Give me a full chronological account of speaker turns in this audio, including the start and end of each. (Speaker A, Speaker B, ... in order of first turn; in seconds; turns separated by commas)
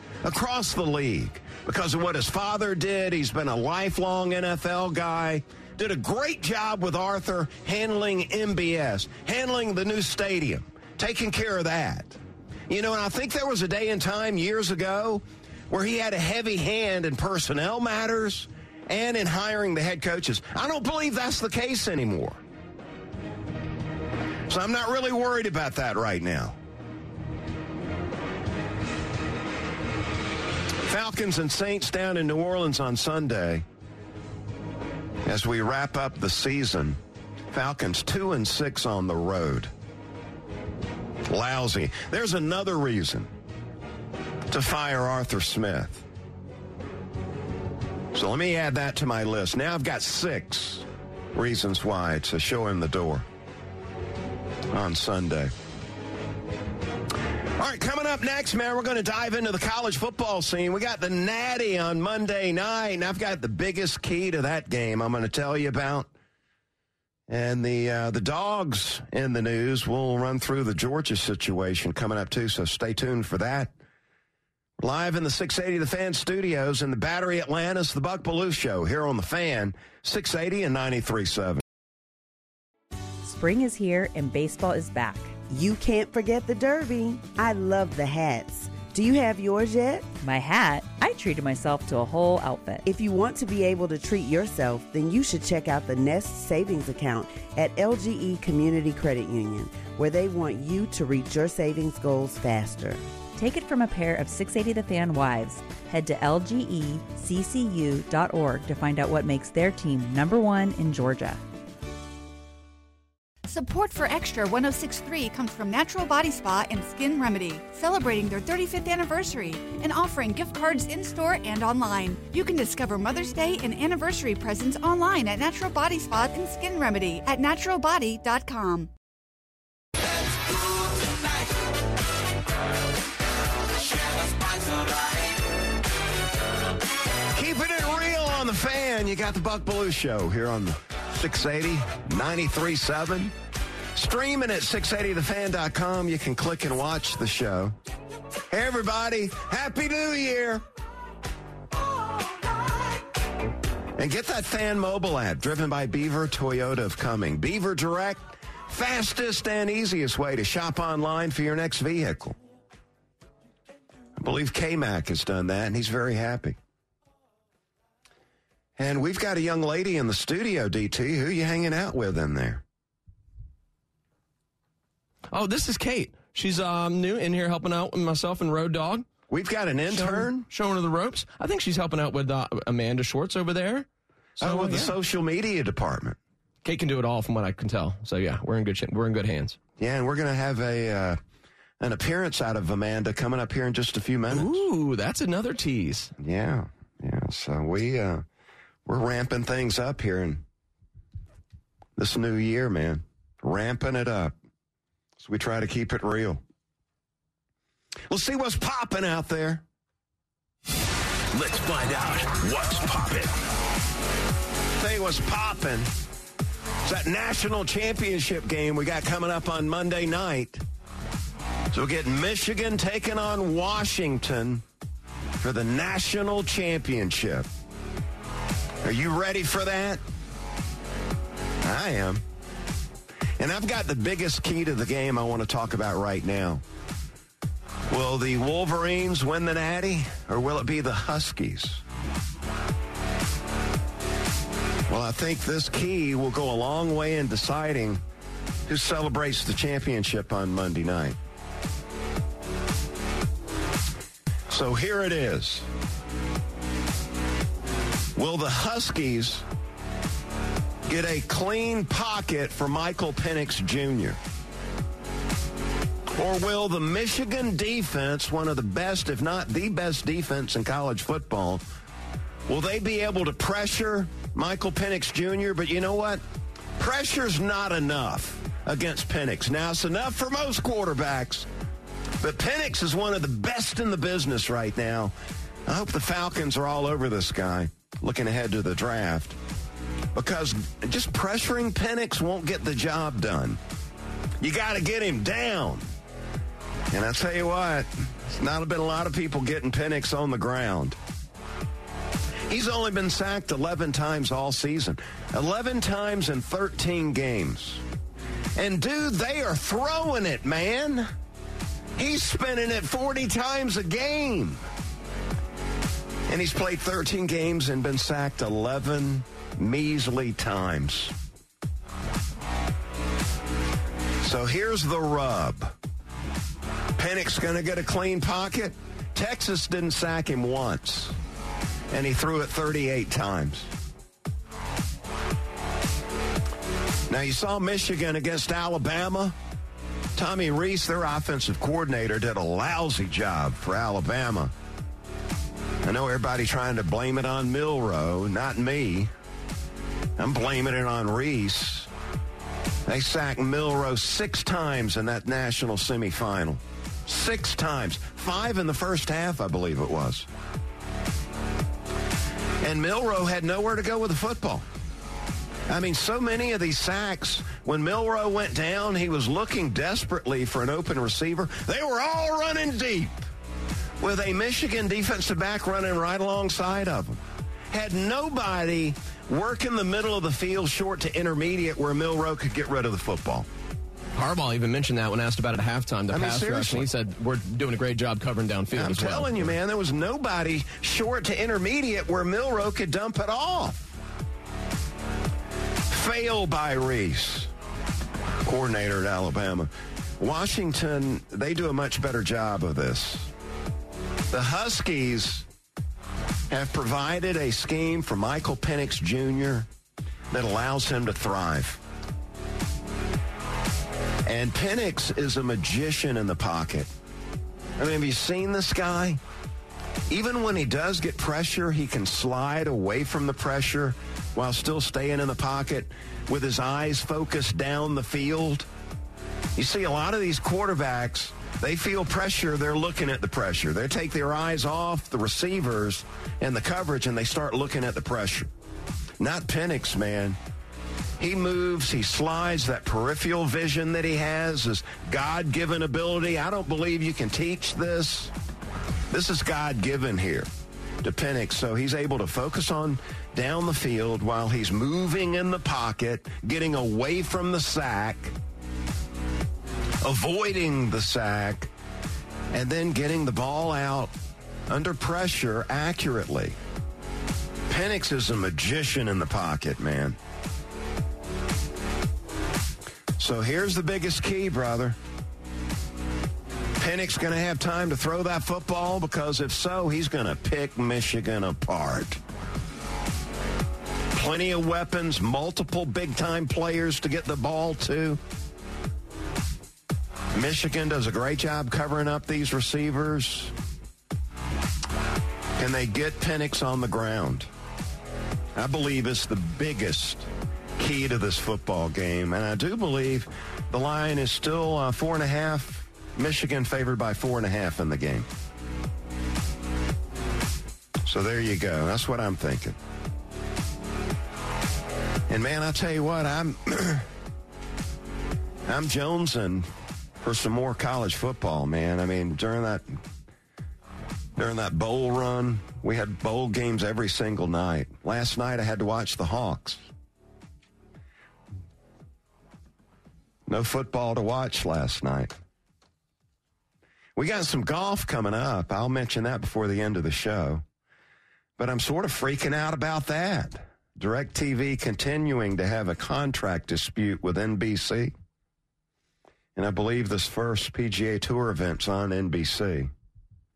Speaker A: 0.2-22.4, Speaker A: 24.5-26.6, Speaker A: 30.8-33.6, Speaker A: 35.2-37.0, Speaker A: 37.5-39.7, Speaker A: 41.3-43.3, Speaker A: 44.5-46.0, Speaker A: 48.1-53.2, Speaker A: 54.7-55.5, Speaker A: 57.6-66.1, Speaker A: 67.3-73.7, Speaker A: 74.8-81.6, Speaker B: 83.2-85.3, Speaker C: 85.5-90.1, Speaker B: 90.2-92.8, Speaker C: 92.8-103.0, Speaker B: 103.4-111.4, Speaker D: 113.5-128.9, Speaker A: 137.3-143.3, Speaker A: 143.9-147.8, Speaker A: 148.5-150.6, Speaker A: 154.0-162.4, Speaker A: 164.2-166.6, Speaker A: 168.8-172.6, Speaker E: 175.3-179.1, Speaker A: 179.3-180.5, Speaker E: 179.9-183.8, Speaker E: 184.4-184.9, Speaker A: 184.4-186.2, Speaker E: 186.6-189.6, Speaker A: 189.8-191.2, Speaker A: 191.8-194.6, Speaker E: 194.3-196.1, Speaker A: 196.2-198.2, Speaker A: 198.8-200.4, Speaker A: 202.0-204.3, Speaker A: 205.2-206.4, Speaker A: 208.1-209.6, Speaker F: 211.3-213.3, Speaker A: 214.8-215.9, Speaker A: 216.8-220.6, Speaker A: 221.7-224.6, Speaker A: 225.4-227.5, Speaker A: 228.8-230.0, Speaker A: 231.6-232.2, Speaker A: 233.4-236.6, Speaker A: 237.9-241.8, Speaker A: 244.9-248.0, Speaker A: 248.7-251.2, Speaker A: 254.5-255.7, Speaker A: 258.1-259.4, Speaker A: 260.9-264.2, Speaker A: 266.1-271.6, Speaker A: 272.5-276.2, Speaker A: 276.8-281.5, Speaker A: 282.2-285.1, Speaker A: 285.7-289.4, Speaker A: 290.1-293.6, Speaker A: 294.4-295.9, Speaker A: 296.9-301.0, Speaker A: 302.5-307.8, Speaker A: 308.6-311.1, Speaker A: 311.9-314.6, Speaker A: 316.3-321.1, Speaker A: 324.2-325.8, Speaker A: 326.9-331.1, Speaker A: 331.9-333.7, Speaker A: 337.1-339.4, Speaker A: 340.1-344.5, Speaker A: 345.8-349.1, Speaker A: 350.2-351.9, Speaker A: 352.9-360.3, Speaker A: 362.6-364.6, Speaker A: 365.7-373.3, Speaker A: 374.0-383.5, Speaker E: 384.1-389.5, Speaker A: 386.1-386.9, Speaker A: 388.7-394.0, Speaker A: 395.9-397.5, Speaker A: 398.4-403.3, Speaker A: 404.3-405.5, Speaker A: 406.5-409.7, Speaker A: 410.3-411.8, Speaker A: 414.2-416.9, Speaker A: 417.8-419.2, Speaker A: 420.1-428.7, Speaker A: 429.6-438.5, Speaker A: 439.2-440.4, Speaker A: 441.2-448.3, Speaker A: 449.1-450.5, Speaker A: 451.0-458.4, Speaker A: 460.0-461.7, Speaker A: 462.5-464.1, Speaker A: 464.7-466.6, Speaker A: 467.7-470.2, Speaker A: 473.2-475.0, Speaker A: 476.8-482.2, Speaker A: 484.1-488.2, Speaker A: 490.3-493.5, Speaker A: 495.6-497.5, Speaker A: 498.6-508.3, Speaker A: 511.0-512.8, Speaker A: 515.3-517.1, Speaker A: 518.6-519.7, Speaker A: 520.2-523.0, Speaker A: 524.4-529.9, Speaker A: 533.5-535.4, Speaker A: 537.1-540.6, Speaker A: 541.6-548.1, Speaker A: 549.5-552.9